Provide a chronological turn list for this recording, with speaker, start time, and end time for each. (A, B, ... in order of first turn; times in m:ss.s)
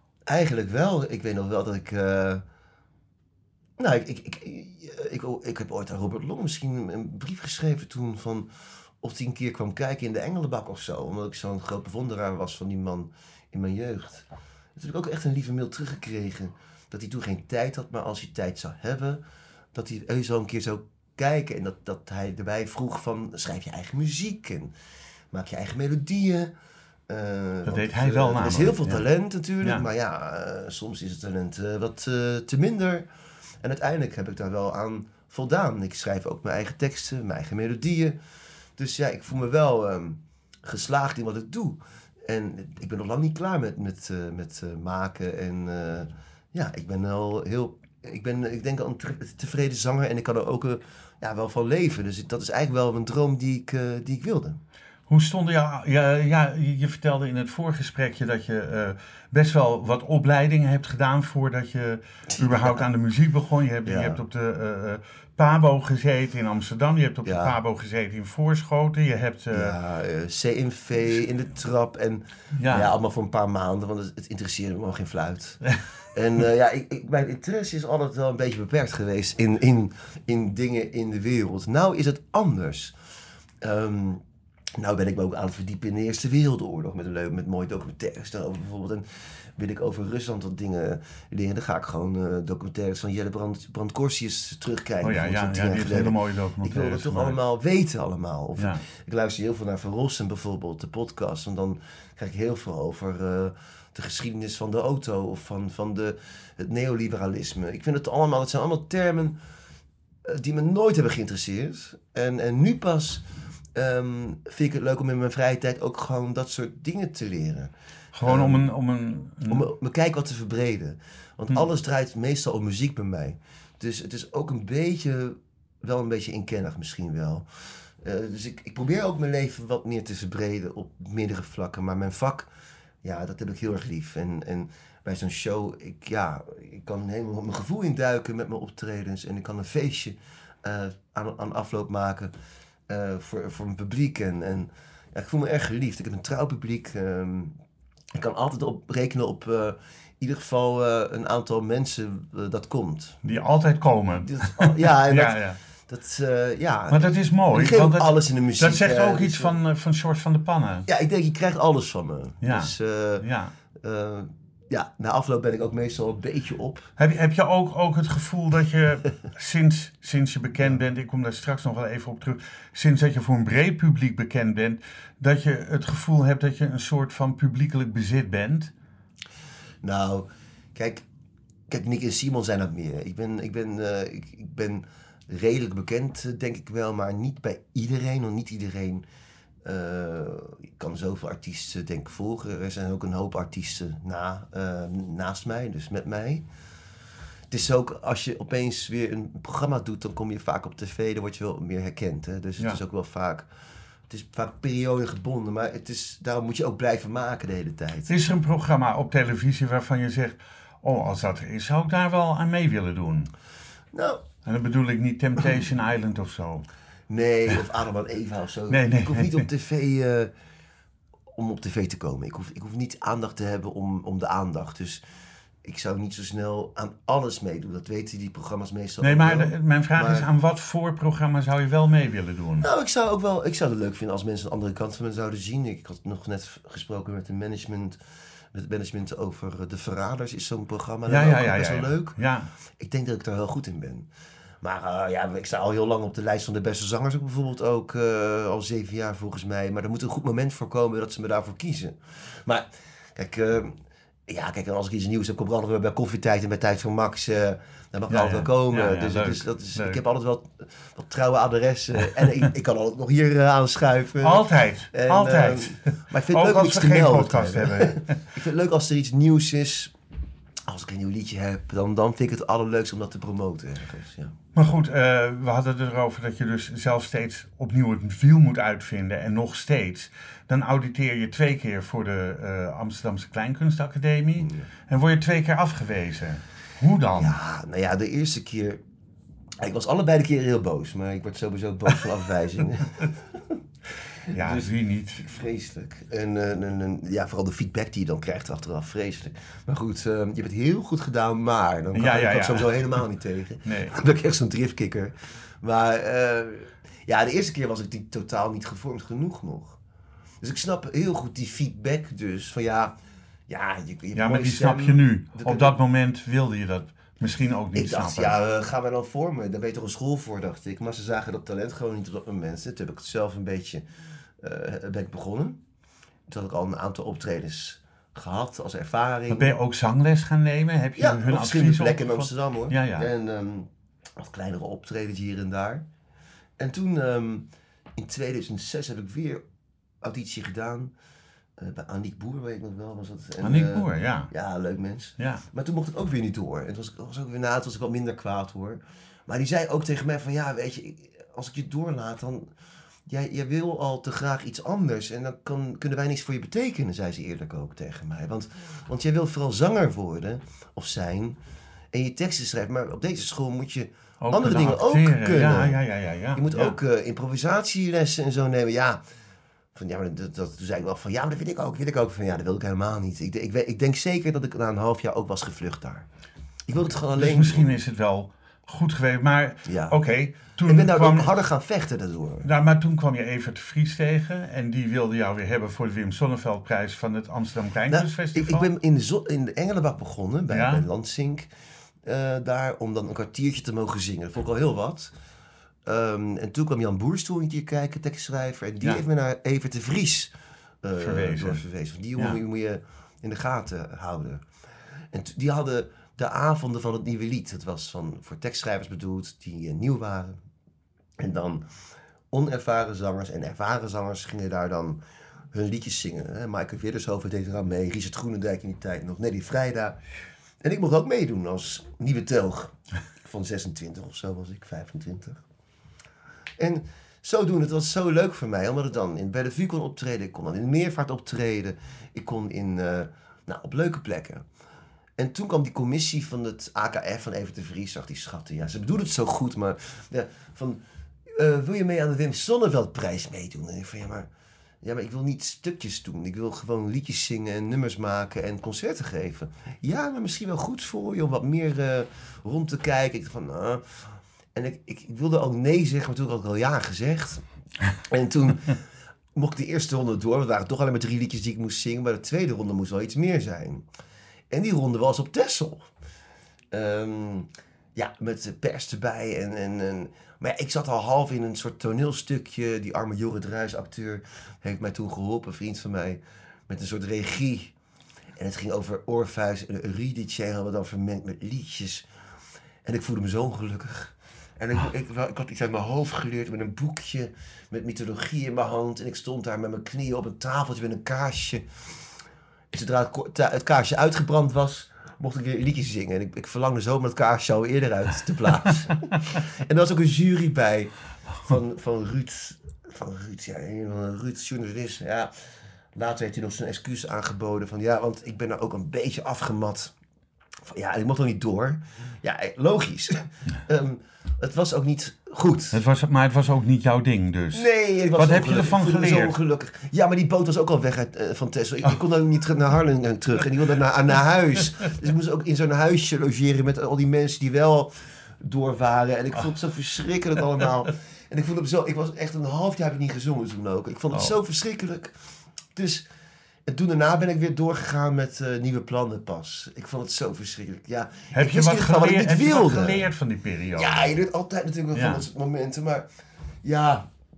0:00.3-0:02.4 A
0:03.8-0:08.5 A
0:09.0-0:19.2 A
0:19.7-0:24.7 A
0:25.3-0:26.5 A
0:27.1-0:33.0 A
0:27.6-0:29.0 B
0:33.6-0:38.2 A
0:38.8-0:54.6 A
0:55.1-1:09.8 B
1:02.3-1:02.9 A
1:03.8-1:04.2 A
1:07.2-1:07.6 A
1:09.5-1:22.9 A
1:12.6-1:12.9 B
1:23.6-1:24.2 A
1:24.8-1:49.4 A
1:35.0-1:37.4 B
1:38.6-1:38.8 B
1:50.2-1:53.2 A
1:53.7-1:57.7 A
1:58.1-1:59.7 B
1:58.2-1:58.7 A
1:59.5-2:12.5 A
2:13.0-2:22.3 A
2:22.9-2:27.6 A
2:28.1-2:33.2 A
2:33.2-2:35.6 B
2:34.2-2:39.5 A
2:36.9-2:40.8 B
2:40.8-2:46.9 A
2:42.4-2:43.5 B
2:47.0-2:58.7 B
2:59.8-3:01.0 A
3:01.7-3:09.0 A
3:09.6-3:16.4 A
3:17.5-3:23.5 A
3:24.1-3:28.1 A
3:28.1-3:33.3 B
3:33.9-3:34.2 A
3:34.4-3:36.6 B
3:37.1-3:40.3 A
3:38.7-3:39.5 B
3:41.3-3:45.0 A
3:45.6-3:50.3 A
3:49.0-3:52.7 B
3:52.6-3:58.0 A
3:58.5-4:02.2 A
4:01.1-4:02.5 B
4:02.8-4:04.1 A
4:04.6-4:29.9 A
4:18.1-4:20.0 B
4:22.2-4:22.4 B
4:24.2-4:28.2 B
4:30.7-4:34.3 A
4:34.5-4:47.4 B
4:44.4-4:44.6 A
4:47.1-4:48.8 A
4:49.6-4:53.6 A
4:54.2-5:09.8 A
4:54.3-4:55.2 B
5:01.9-5:03.0 B
5:03.6-5:03.9 B
5:10.4-5:12.9 A
5:13.5-5:15.8 A
5:14.1-5:18.4 B
5:17.7-5:23.8 A
5:24.4-5:25.6 A
5:26.3-5:29.6 A
5:29.3-5:33.1 B
5:31.0-5:35.8 A
5:36.6-5:39.4 A
5:40.0-5:40.9 A
5:41.6-5:52.5 A
5:43.4-5:44.3 B
5:45.2-5:45.4 B
5:53.1-6:01.4 A
6:01.9-6:05.8 A
6:04.2-6:06.8 B
6:06.3-6:09.0 A
6:09.7-6:16.1 A
6:16.7-6:17.8 A
6:17.1-6:21.3 B
6:19.6-6:20.0 A
6:20.6-6:22.5 A
6:22.4-6:28.7 B
6:27.9-6:31.5 A
6:30.5-6:30.8 B
6:32.0-6:35.1 A
6:35.8-6:40.3 A
6:40.8-6:44.4 A
6:41.0-6:41.6 B
6:45.1-6:50.4 A
6:51.2-6:51.6 A
6:52.3-6:55.0 A
6:55.5-7:00.0 A
7:00.6-7:05.4 A
7:06.6-7:14.4 A
7:15.2-7:24.3 A
7:24.8-7:37.4 A
7:38.0-7:38.8 A
7:39.3-7:43.8 A
7:44.5-7:45.9 A
7:46.7-7:57.7 A
7:58.4-8:02.0 A
8:02.8-8:11.6 A
8:12.7-8:29.9 A
8:30.6-8:35.8 A
8:35.7-8:39.3 B
8:37.5-8:55.1 A
8:55.7-8:56.0 A
8:56.7-9:03.0 A
9:01.3-9:04.1 B
9:03.7-9:06.1 A
9:04.9-9:05.2 B
9:06.6-9:07.1 A